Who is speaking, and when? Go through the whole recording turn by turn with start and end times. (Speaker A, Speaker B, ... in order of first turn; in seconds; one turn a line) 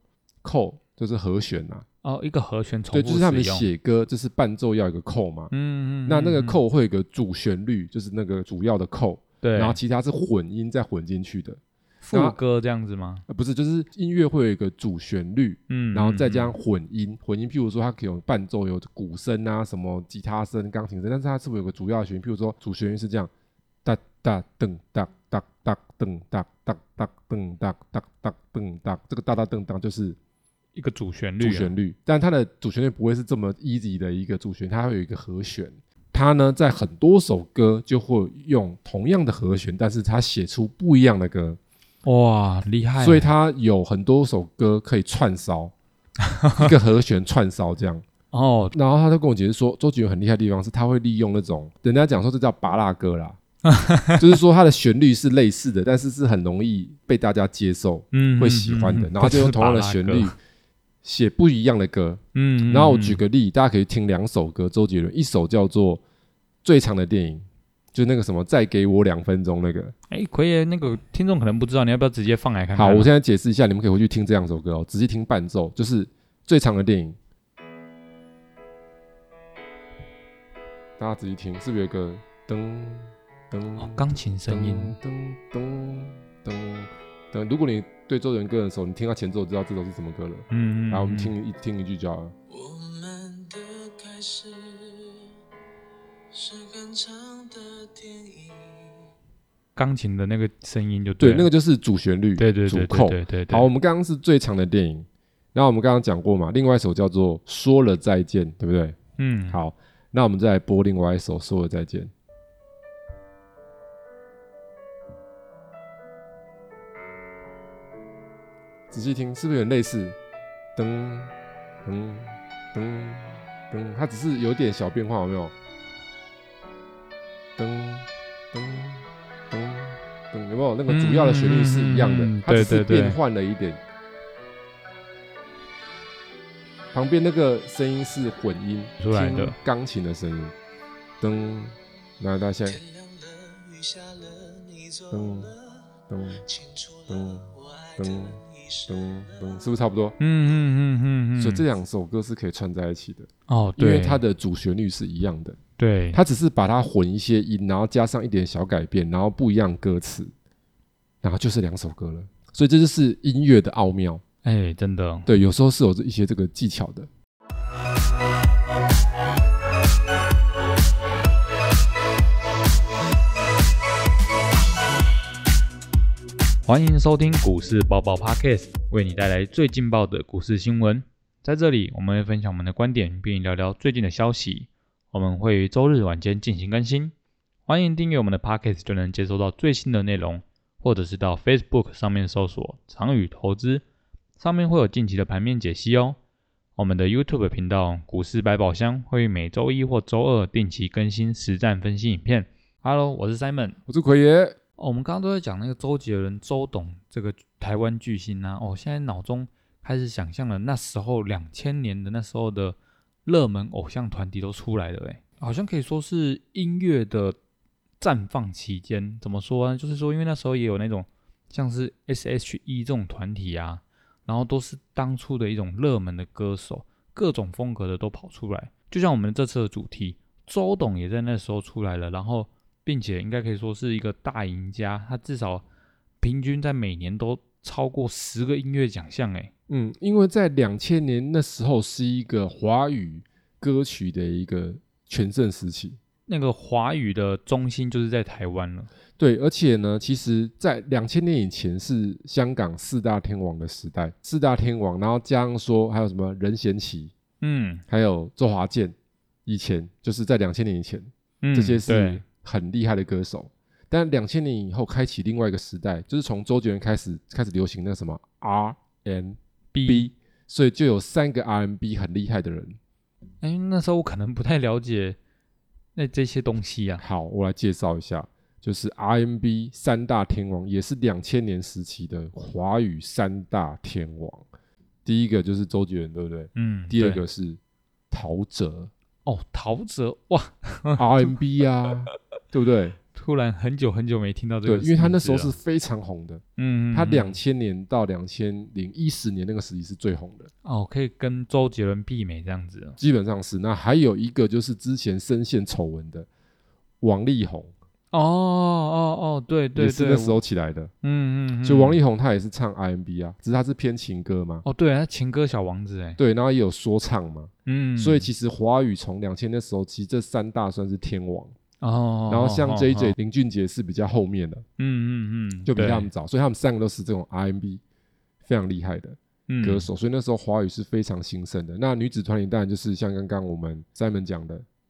Speaker A: 0.4-1.9
Speaker B: 2.0-3.7
Speaker A: 2.9-5.5
Speaker B: 5.5-6.6
Speaker A: 6.0-11.6
Speaker B: 9.4-9.8
Speaker B: 12.0-13.2
Speaker A: 12.1-12.4
Speaker A: 13.3-23.3
Speaker B: 15.7-16.5
Speaker A: 23.8-30.2
Speaker B: 30.8-31.7
Speaker A: 31.4-41.6
Speaker B: 42.0-43.3
Speaker A: 43.0-45.7
Speaker B: 46.2-46.7
Speaker A: 46.5-48.0
Speaker B: 48.3-48.8
Speaker A: 48.7-53.4
Speaker B: 53.6-54.2
Speaker A: 54.2-60.3
Speaker B: 58.1-60.3
Speaker A: 61.0-66.0
Speaker B: 62.3-63.2
Speaker A: 66.6-69.9
Speaker B: 70.1-73.1
Speaker A: 72.7-77.2
Speaker A: 81.0-92.3
Speaker B: 83.8-85.0
Speaker B: 90.5-91.3
Speaker C: 92.5-95.3
Speaker C: 96.3-99.1
Speaker B: 99.8-101.5
Speaker A: 101.2-109.0
Speaker B: 102.4-103.7
Speaker B: 109.2-109.6
Speaker A: 109.5-112.1
Speaker A: 118.9-120.2
Speaker A: 120.8-121.3
Speaker A: 121.8-125.5
Speaker A: 127.6-133.8
Speaker B: 130.9-133.2
Speaker A: 136.9-140.5
Speaker B: 139.0-139.5
Speaker A: 141.2-142.8
Speaker C: 142.7-149.8
Speaker A: 145.1-145.5
Speaker A: 146.1-146.4
Speaker A: 147.1-147.4
Speaker A: 148.0-150.2
Speaker B: 150.2-151.7
Speaker A: 151.4-155.6
Speaker B: 153.5-154.2
Speaker B: 155.8-156.2
Speaker A: 156.1-160.3
Speaker A: 161.2-164.2
Speaker B: 164.4-165.3
Speaker A: 165.2-167.1
Speaker B: 176.6-187.1
Speaker B: 187.7-193.8
Speaker B: 194.4-196.2
Speaker B: 196.8-203.8
Speaker A: 203.9-204.6
Speaker B: 204.8-217.4
Speaker B: 218.0-235.6
Speaker B: 236.2-239.5
Speaker A: 239.7-246.0
Speaker B: 246.3-248.9
Speaker A: 249.2-257.1
Speaker B: 257.4-257.8
Speaker A: 257.9-258.9
Speaker A: 259.4-272.8
Speaker B: 261.4-262.2
Speaker B: 269.7-270.1
Speaker B: 273.4-275.2
Speaker B: 275.9-277.0
Speaker A: 277.0-284.5
Speaker A: 285.0-287.6
Speaker B: 286.5-287.2
Speaker A: 288.1-288.9
Speaker B: 289.2-291.3
Speaker A: 291.0-293.0
Speaker B: 293.1-295.6
Speaker A: 294.6-300.5
Speaker B: 296.6-297.4
Speaker B: 300.6-303.0
Speaker A: 303.0-306.3
Speaker A: 307.0-307.7
Speaker B: 308.1-310.4
Speaker A: 309.7-310.9
Speaker B: 311.0-312.0
Speaker A: 311.6-314.6
Speaker B: 314.6-316.2
Speaker A: 316.2-321.5
Speaker B: 317.6-318.3
Speaker B: 321.8-323.1
Speaker A: 322.3-324.6
Speaker B: 324.8-326.1
Speaker A: 325.7-327.8
Speaker A: 328.4-334.6
Speaker B: 329.5-329.9